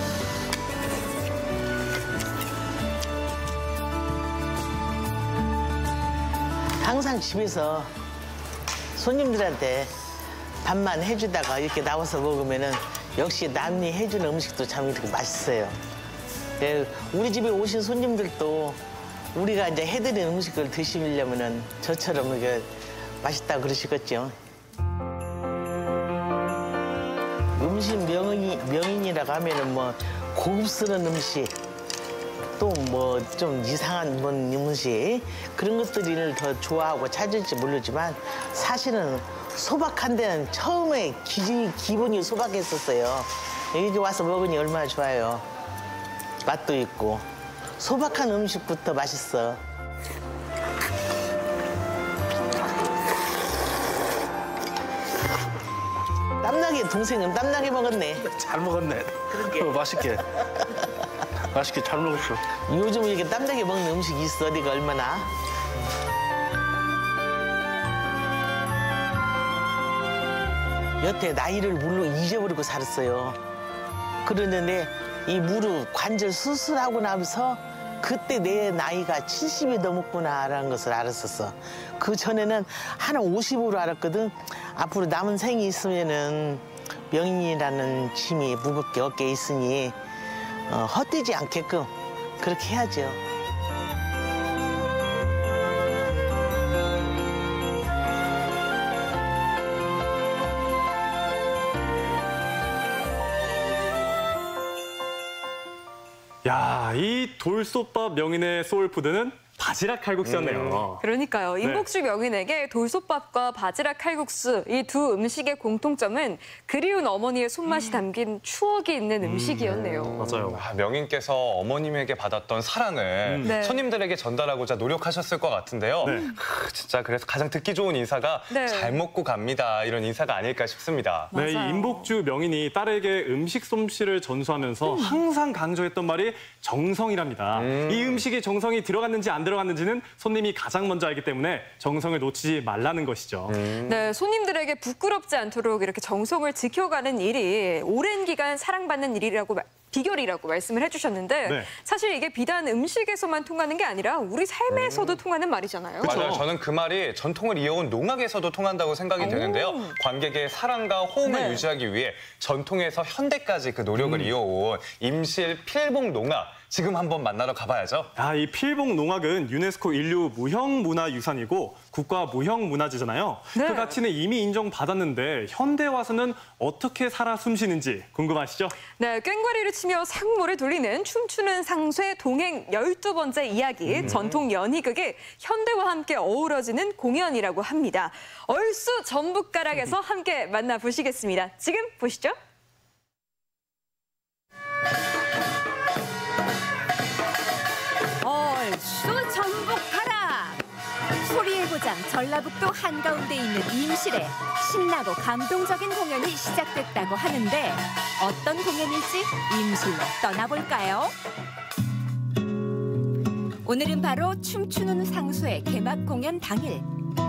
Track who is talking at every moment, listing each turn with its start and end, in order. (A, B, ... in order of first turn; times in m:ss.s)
0:06.8-0:07.9 A
0:09.0-0:09.9 A
0:10.6-0:15.8 A
0:16.6-0:18.8 A
0:19.3-0:22.7 A
0:23.2-0:24.4 A
0:27.6-0:31.5 A
0:32.6-0:45.4 A
0:46.4-0:47.2 A
0:47.8-0:49.6 A
0:56.4-0:58.2 A
0:58.3-1:00.2 B
1:01.5-1:02.4 B
1:02.7-1:05.3 A
1:11.0-1:13.4 A
1:14.2-1:30.0 A
1:30.7-1:33.2 A
1:46.4-1:51.0 C
1:50.2-1:50.9 D
1:51.0-2:00.4 E
1:59.2-2:00.6 C
2:00.5-2:11.3 D
2:03.2-2:03.5 C
2:03.4-2:03.8 E
2:06.0-2:06.3 C
2:08.5-2:09.0 E
2:11.3-2:12.1 E
2:11.3-2:23.5 C
2:14.8-2:15.2 E
2:17.5-2:18.2 D
2:23.5-2:24.1 D
2:23.9-2:36.3 E
2:34.7-2:35.2 D
2:36.0-2:36.5 C
2:36.0-2:48.1 D
2:39.2-2:39.9 E
2:41.2-2:41.6 E
2:44.0-2:44.3 C
2:48.2-2:58.8 C
2:53.5-2:53.9 E
2:59.0-3:12.4 E
3:03.9-3:04.2 C
3:04.0-3:04.4 D
3:18.2-3:20.6 F
3:21.2-3:31.1 F
3:33.6-3:36.8 F